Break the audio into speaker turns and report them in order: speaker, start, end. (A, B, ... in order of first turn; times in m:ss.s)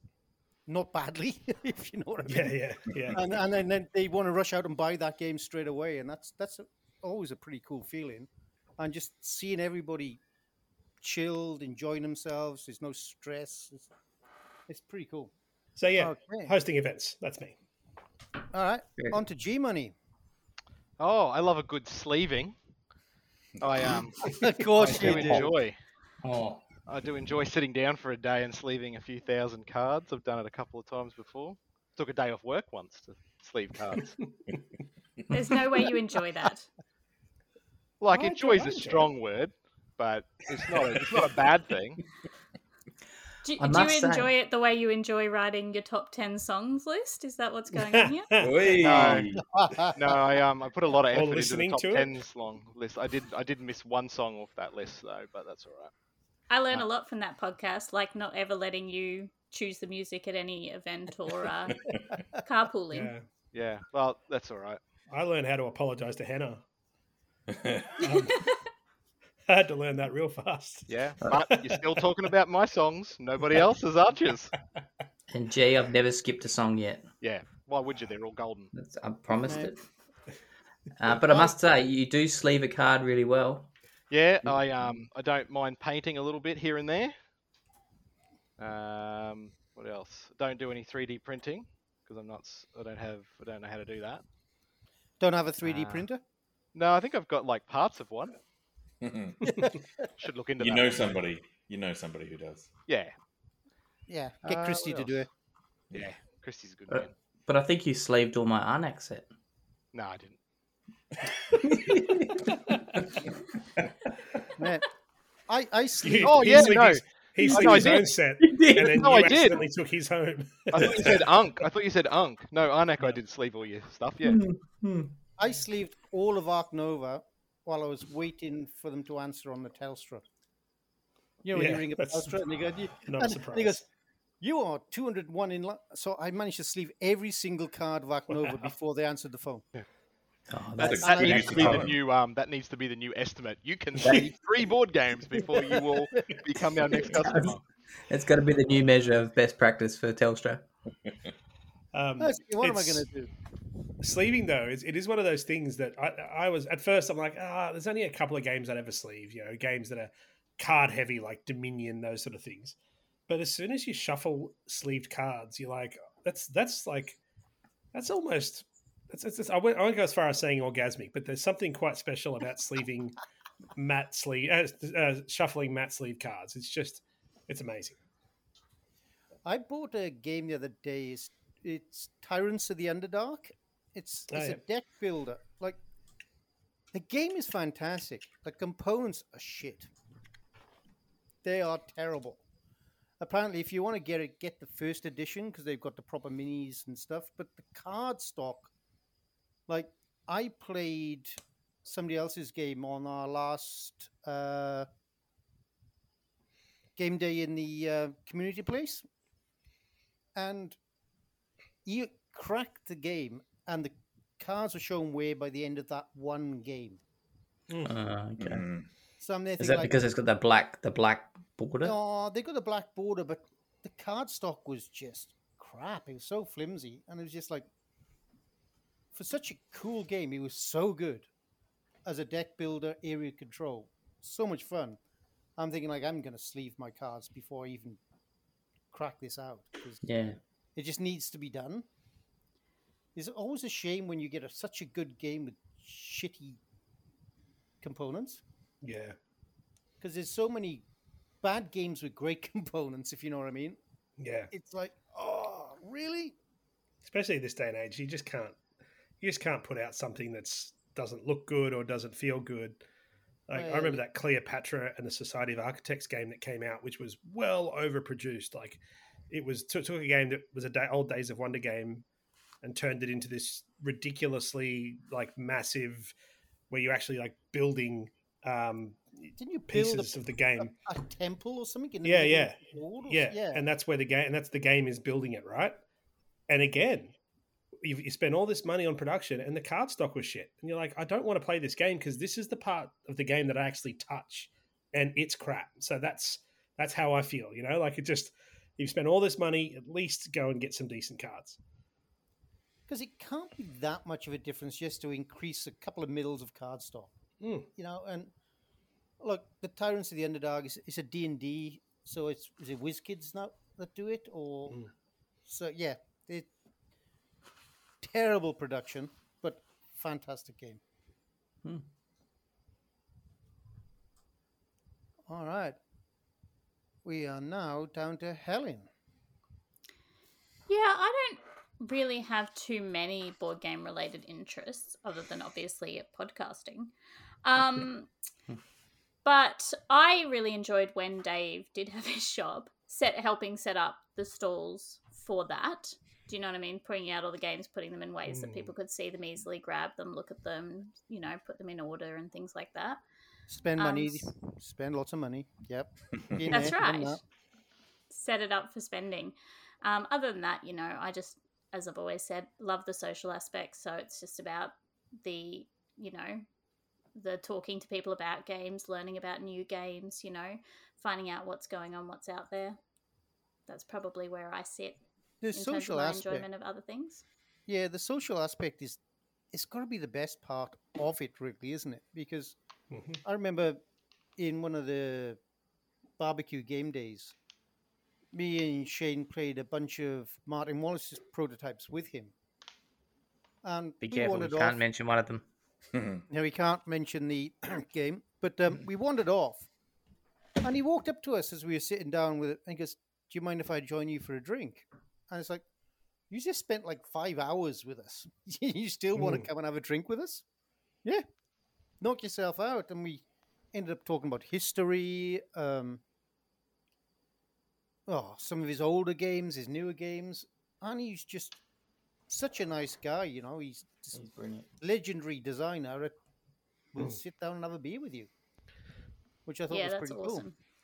0:00.7-0:02.6 A
0:02.3-0:03.2 B
0:03.1-0:10.2 A
0:11.0-0:13.9 A
0:14.7-0:15.3 A
0:15.8-0:17.6 B
0:16.0-0:16.5 A
0:18.5-0:20.0 A
0:21.0-0:22.6 C
0:23.6-0:24.0 D
0:23.6-0:25.8 C
0:24.2-0:25.5 A
0:24.8-0:25.5 E
0:26.2-0:26.6 E
0:26.9-0:34.2 C
0:35.3-0:36.7 F
0:38.0-0:42.0 C
0:38.1-0:38.9 A
0:38.8-0:39.1 B
0:43.4-0:48.7 F
0:43.6-0:44.3 E
0:47.8-0:48.7 B
0:48.4-0:49.4 D
0:48.8-0:49.3 C
0:49.4-0:50.0 A
0:49.9-0:55.9 C
0:51.1-0:52.2 B
0:56.5-1:01.8 F
1:02.4-1:03.1 F
1:02.9-1:03.3 B
1:03.5-1:04.8 C
1:05.1-1:06.6 B
1:07.5-1:08.0 D
1:08.0-1:08.5 B
1:09.5-1:12.1 B
1:10.9-1:14.5 C
1:15.3-1:17.1 E
1:17.2-1:18.7 C
1:18.7-1:19.8 E
1:19.4-1:19.7 A
1:21.0-1:23.7 E
1:21.1-1:21.5 A
1:24.1-1:27.2 C
1:28.6-1:34.2 C
1:35.2-1:36.2 A
1:35.6-1:36.1 E
1:36.8-1:38.4 C
1:39.0-1:39.6 D
1:40.2-1:41.2 C
1:40.6-1:42.7 D
1:42.9-1:43.1 C
1:44.1-1:45.3 A
1:44.5-1:45.2 C
1:45.9-1:47.1 C
1:46.9-1:49.3 E
1:49.9-1:50.4 C
1:51.6-1:53.2 E
1:54.6-1:54.8 A
1:55.5-1:56.9 A
1:56.0-2:01.0 B
1:56.2-1:58.1 C
1:57.6-1:58.0 A
1:58.4-1:59.1 E
1:58.8-1:59.7 C
2:00.7-2:04.4 C
2:00.8-2:01.1 D
2:04.2-2:05.1 E
2:05.4-2:10.2 A
2:11.4-2:13.8 A
2:11.5-2:12.4 B
2:13.0-2:13.8 B
2:14.4-2:19.6 A
2:18.3-2:18.7 B
2:20.5-2:21.9 E
2:20.8-2:21.8 A
2:20.9-2:21.9 D
2:20.9-2:27.6 C
2:25.5-2:25.8 A
2:27.2-2:27.6 E
2:28.1-2:30.6 E
2:31.9-2:33.1 B
2:32.2-2:33.3 A
2:34.0-2:42.8 B
2:43.3-2:47.2 B
2:47.9-2:53.2 B
2:53.8-2:58.0 B
2:59.4-3:05.8 A
3:04.3-3:04.6 B
3:06.9-3:09.9 A
3:11.4-3:12.4 A
3:13.2-3:18.7 A
3:19.7-3:24.9 A
3:27.0-3:29.0 A
3:30.4-3:30.8 A
3:31.8-3:37.0 A
3:37.8-3:38.7 E
3:38.4-3:38.9 D
3:39.2-3:39.9 A
3:39.6-3:42.0 E
3:41.8-3:47.7 A
3:49.1-3:51.3 A
3:52.0-3:55.0 A
3:55.6-3:58.0 A
3:58.9-4:00.0 A
4:00.0-4:00.4 E
4:00.8-4:01.9 A
4:03.2-4:06.6 A
4:07.8-4:08.4 A
4:08.8-4:09.2 B
4:10.0-4:10.8 A
4:11.4-4:13.8 A
4:14.2-4:14.5 B
4:14.5-4:16.4 A
4:17.0-4:18.6 B
4:19.2-4:22.8 B
4:23.5-4:32.0 B
4:23.6-4:24.0 A
4:32.6-4:36.2 B
4:36.7-4:40.7 B
4:39.4-4:43.6 A
4:42.0-4:45.8 B
4:46.5-4:47.2 B
4:47.8-5:01.6 B
5:02.9-5:07.1 A
5:07.4-5:07.7 B
5:07.8-5:08.3 A
5:09.2-5:14.8 A
5:15.5-5:16.5 A
5:18.0-5:20.8 A
5:25.3-5:25.8 A
5:27.0-5:28.9 A
5:30.7-5:36.9 F
5:37.4-5:38.1 F
5:39.2-5:53.0 F
5:48.3-5:48.7 B
5:53.5-5:57.2 A
5:53.8-5:54.3 F
5:56.3-5:56.7 D
5:56.5-5:57.2 F
5:58.1-6:06.4 F
6:07.1-6:12.8 F
6:13.7-6:15.0 F
6:15.4-6:16.5 A
6:15.5-6:17.2 F
6:17.7-6:19.0 A
6:19.5-6:22.6 A
6:22.9-6:23.2 B
6:23.2-6:23.8 A
6:24.4-6:25.4 A
6:26.2-6:27.4 A
6:28.3-6:32.3 A
6:33.6-6:34.8 A
6:34.0-6:35.4 E
6:35.9-6:36.2 D
6:36.3-6:39.7 A
6:40.6-6:45.6 A
6:46.3-6:50.4 A
6:49.2-6:49.5 B
6:52.0-6:56.0 A
6:58.1-7:01.6 A
7:02.3-7:04.2 A
7:04.1-7:04.7 E
7:04.8-7:06.2 A
7:06.9-7:08.3 A
7:09.5-7:10.4 A
7:09.7-7:10.5 F